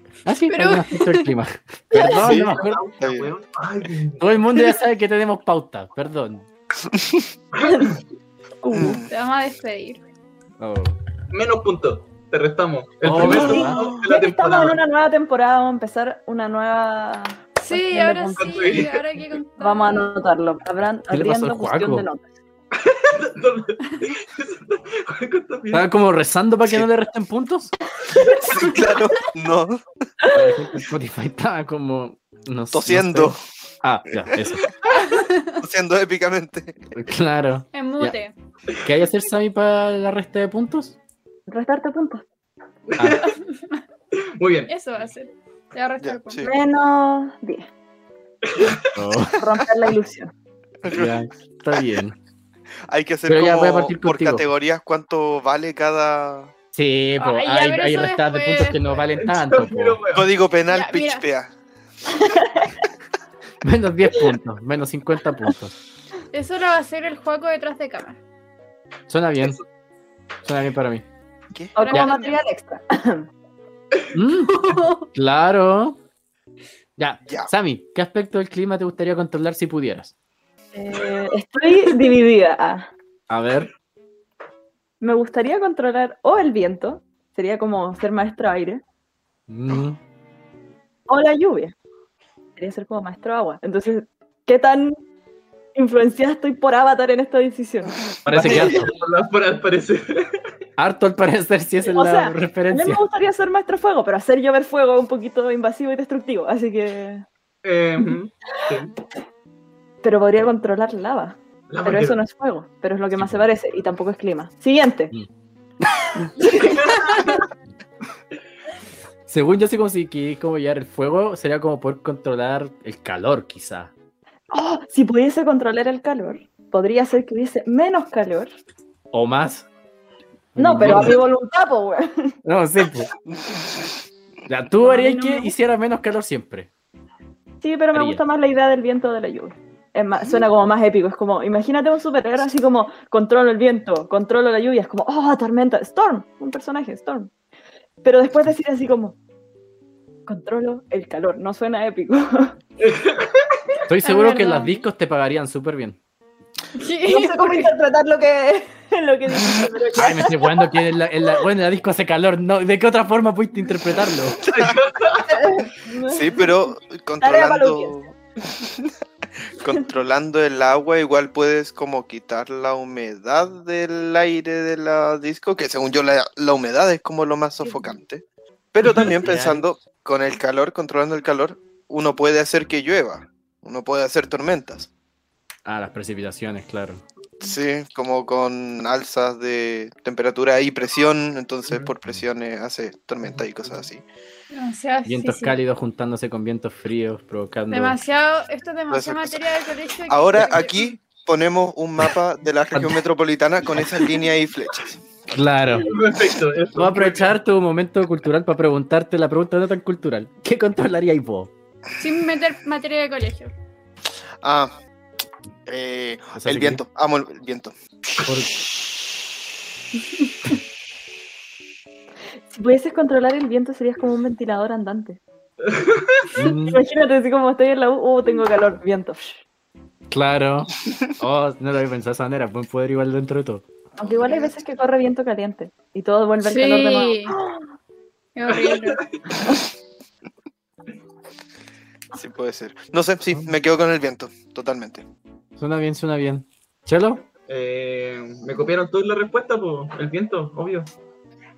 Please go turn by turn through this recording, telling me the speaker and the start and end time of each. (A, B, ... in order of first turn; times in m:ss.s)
0:00.2-0:02.8 A
0:00.5-0:01.3 B
0:02.0-0:04.3 C
0:02.2-0:03.3 D
0:04.2-0:06.4 A
0:06.9-0:07.2 D
0:07.6-0:07.9 C
0:07.6-0:07.9 E
0:08.6-0:09.0 E
0:08.7-0:09.1 D
0:09.1-0:10.0 B
0:10.6-0:10.9 A
0:11.3-0:14.8 C
0:13.0-0:13.8 A
0:13.2-0:18.8 E
0:13.6-0:14.0 D
0:17.6-0:20.2 B
0:18.3-0:19.0 C
0:19.6-0:22.3 E
0:21.1-0:22.0 A
0:22.7-0:25.9 C
0:25.7-0:27.7 A
0:28.4-0:29.8 D
0:30.2-0:30.5 E
0:30.3-0:34.7 A
0:32.7-0:33.4 D
0:35.6-0:36.8 D
0:36.9-0:38.2 A
0:37.7-0:38.3 B
0:38.8-0:41.0 A
0:41.5-0:42.2 E
0:42.9-0:43.3 C
0:43.0-0:43.2 A
0:43.2-0:43.8 B
0:44.1-0:44.7 C
0:44.7-0:46.5 B
0:46.0-0:46.5 D
0:46.4-0:47.7 E
0:48.4-0:48.9 C
0:48.9-0:49.4 A
0:49.4-0:50.3 E
0:50.8-0:51.1 D
0:50.9-0:52.2 A
0:52.9-0:56.5 D
0:53.2-0:54.4 A
0:56.7-1:00.0 A
0:57.2-0:59.0 B
0:59.1-1:00.3 C
1:00.1-1:01.5 D
1:00.7-1:01.2 B
1:02.2-1:02.8 E
1:03.6-1:05.8 A
1:06.3-1:08.2 B
1:09.1-1:09.6 A
1:10.4-1:11.0 A
1:11.8-1:13.3 E
1:11.8-1:12.3 B
1:14.1-1:16.0 A
1:14.6-1:15.0 B
1:17.0-1:20.1 A
1:20.7-1:22.9 E
1:23.3-1:23.7 A
1:25.0-1:28.8 E
1:29.5-1:30.0 A
1:31.1-1:31.7 E
1:32.6-1:35.0 E
1:35.7-1:38.6 E
1:38.2-1:38.9 A
1:38.3-1:40.4 C
1:38.4-1:38.8 D
1:40.8-1:43.0 A
1:41.8-1:47.2 E
1:47.6-1:48.9 C
1:50.0-1:55.1 E
1:51.7-1:52.2 C
1:53.2-1:53.4 A
1:56.4-1:57.4 E
1:56.6-1:57.3 C
1:59.3-2:03.9 A
2:04.5-2:08.5 E
2:09.1-2:09.7 A
2:10.5-2:11.2 A
2:10.6-2:12.3 E
2:12.4-2:13.1 A
2:14.5-2:16.7 A
2:14.8-2:15.5 E
2:17.6-2:27.3 E
2:17.9-2:18.2 A
2:28.0-2:29.2 E
2:30.3-2:32.6 E
2:32.8-2:33.8 C
2:33.9-2:36.0 A
2:34.0-2:34.8 B
2:36.7-2:37.7 B
2:37.1-2:40.7 E
2:40.0-2:44.4 A
2:44.5-2:44.8 D
2:44.5-2:45.5 C
2:45.3-2:46.7 E
2:46.1-2:48.9 D
2:47.2-2:48.0 E
2:49.5-2:58.2 D
2:58.7-3:04.9 D
2:58.8-2:59.1 C
2:59.2-2:59.6 A
3:05.6-3:07.0 A
3:07.4-3:14.0 D
3:14.5-3:15.6 B
3:15.0-3:18.0 A
3:17.7-3:20.9 B
3:18.9-3:19.4 D
3:20.1-3:25.0 D
3:25.3-3:25.9 A
3:25.8-3:27.3 C
3:26.7-3:31.5 A
3:32.0-3:33.5 B
3:34.4-3:34.8 D
3:35.7-3:37.7 D
3:36.3-3:36.8 A
3:38.2-3:38.5 A
3:42.5-3:45.2 E
3:45.6-3:46.3 C
3:46.3-3:46.8 A
3:46.6-3:49.4 E
3:50.1-3:53.6 A
3:54.0-3:57.6 E
3:54.0-3:54.5 D
3:56.4-3:57.4 B
3:58.4-3:59.0 B
3:58.5-3:59.2 C
4:02.1-4:05.0 D
4:05.6-4:07.2 A
4:07.5-4:10.9 C